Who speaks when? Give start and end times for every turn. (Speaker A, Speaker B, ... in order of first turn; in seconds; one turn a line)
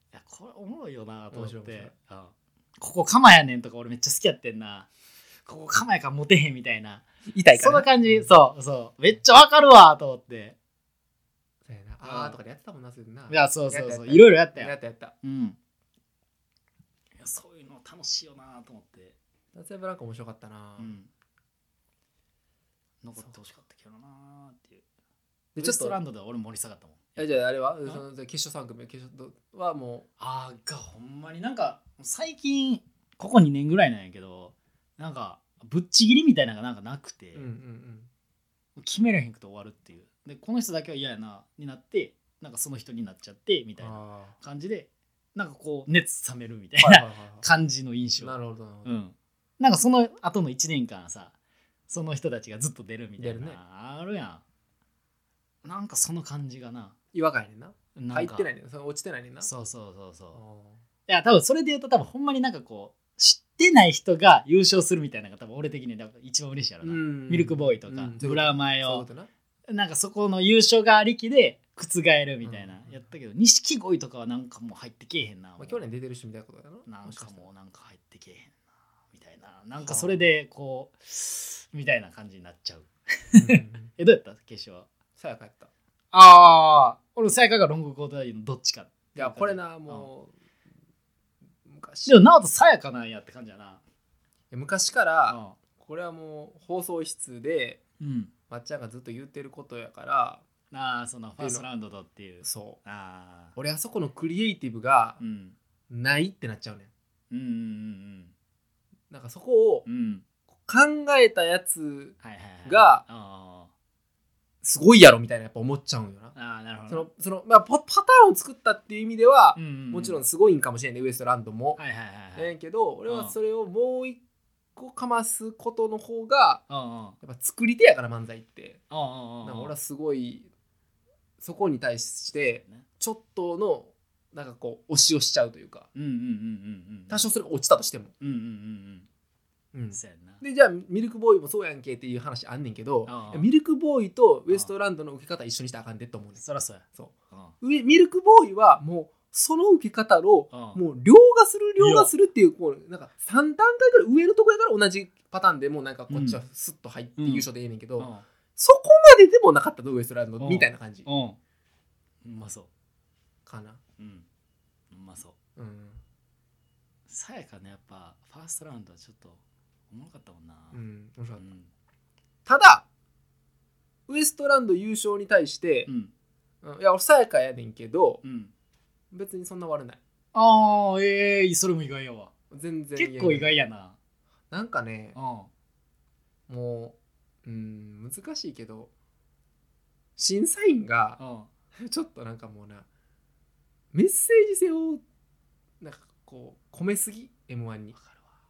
Speaker A: 0.1-4.9
Speaker B: 1.3-1.9
Speaker A: 5.5-10.6
Speaker B: 7.3-8.3
Speaker B: 11.7-15.2
Speaker A: 12.0-12.4
Speaker A: 13.3-15.6
Speaker A: 17.2-19.1
Speaker B: 19.5-20.9
Speaker A: 20.8-21.1
Speaker A: 23.0-24.8
Speaker B: 25.6-26.0
Speaker A: 25.6-27.2
Speaker B: 27.2-30.1
Speaker A: 30.2-37.5
Speaker B: 37.4-38.1
Speaker A: 38.8-51.3
Speaker B: 43.8-44.4
Speaker B: 46.8-47.5
Speaker B: 48.2-48.9
Speaker A: 51.9-54.4
Speaker B: 53.2-53.6
Speaker A: 55.6-56.9
Speaker B: 57.1-59.5
Speaker A: 58.0-58.5
Speaker A: 59.4-60.4
Speaker B: 60.4-60.8
Speaker A: 61.1-69.1
Speaker B: 66.8-69.3
Speaker A: 69.7-75.8
Speaker B: 72.4-73.0
Speaker B: 75.6-77.5
Speaker A: 76.9-78.5
Speaker A: 79.1-84.9
Speaker B: 79.8-80.2
Speaker B: 83.4-83.9
Speaker B: 85.2-85.7
Speaker A: 86.1-90.1
Speaker B: 89.2-90.3
Speaker B: 91.7-92.2
Speaker A: 92.0-93.8
Speaker B: 94.5-97.8
Speaker A: 95.3-95.6
Speaker A: 98.0-98.3
Speaker B: 98.5-100.4
Speaker A: 100.7-103.5
Speaker B: 101.4-101.7
Speaker B: 102.4-102.8
Speaker B: 103.6-105.2
Speaker A: 105.2-105.5
Speaker B: 105.9-106.9
Speaker A: 107.3-108.3
Speaker B: 109.1-109.9
Speaker A: 109.9-110.2
Speaker B: 110.7-113.0
Speaker A: 112.2-113.7
Speaker B: 114.6-116.3
Speaker A: 116.3-117.1
Speaker B: 116.9-121.8
Speaker A: 119.6-120.2
Speaker A: 121.8-122.5
Speaker B: 122.4-124.2
Speaker A: 123.1-123.3
Speaker B: 124.8-126.6
Speaker A: 126.7-127.2
Speaker B: 127.2-128.8
Speaker A: 128.9-129.7
Speaker B: 129.4-130.5
Speaker B: 131.4-135.9
Speaker A: 135.9-137.3
Speaker B: 137.1-138.1
Speaker A: 138.2-139.1
Speaker B: 139.7-146.4
Speaker A: 139.9-140.4
Speaker A: 143.1-143.5
Speaker A: 146.4-147.5
Speaker B: 147.0-161.1
Speaker A: 150.5-150.8
Speaker A: 151.8-152.1
Speaker A: 156.1-156.4
Speaker A: 157.2-157.5
Speaker A: 158.0-158.2
Speaker A: 160.4-161.4
Speaker A: 162.2-162.7
Speaker B: 163.5-163.8
Speaker A: 164.0-164.2
Speaker A: 164.9-165.3
Speaker B: 165.6-166.0
Speaker A: 167.1-169.4
Speaker A: 169.9-170.8
Speaker B: 170.7-171.5
Speaker A: 171.4-171.7
Speaker B: 172.5-172.8
Speaker B: 174.1-175.9
Speaker B: 176.6-178.2
Speaker A: 178.2-178.5
Speaker B: 179.1-180.0
Speaker A: 180.3-182.3
Speaker B: 182.5-183.5
Speaker A: 183.0-184.0
Speaker B: 184.5-185.2
Speaker A: 185.2-185.5
Speaker B: 186.5-188.9
Speaker B: 190.2-191.2
Speaker A: 191.2-191.5
Speaker B: 191.8-192.9
Speaker B: 193.9-195.0
Speaker B: 195.8-198.0